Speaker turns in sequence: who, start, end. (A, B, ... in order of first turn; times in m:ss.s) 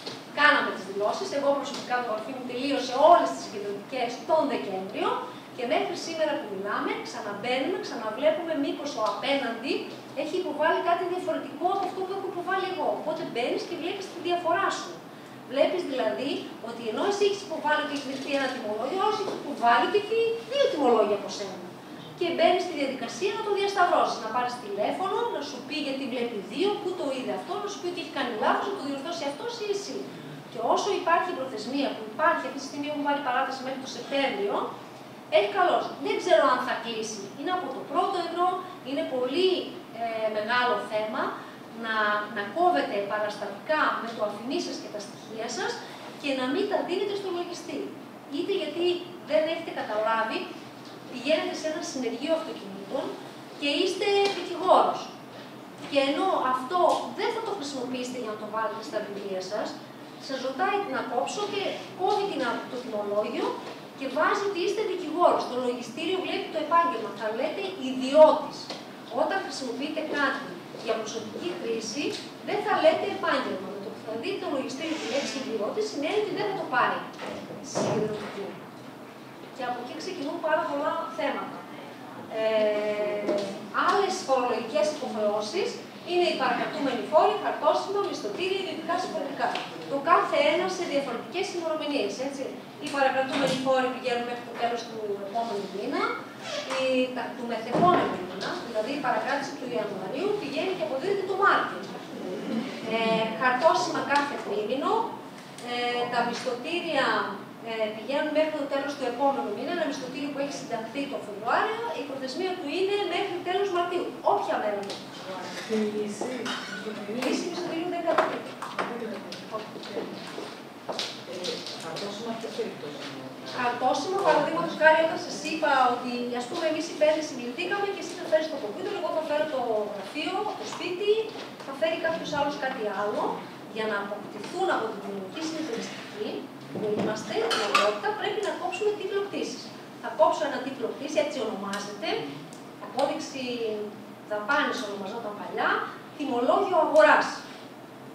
0:00.3-0:34.7 A
0:35.3-0:50.5 A
0:51.1-0:55.1 A
0:55.9-1:18.6 A
1:19.6-1:21.7 A
1:22.3-1:36.1 A
1:36.6-1:55.4 A
1:55.6-1:57.6 B
1:57.1-1:58.6 A
1:58.8-2:00.2 B
2:01.3-2:05.4 C
2:03.5-2:22.2 A
2:22.8-2:27.4 A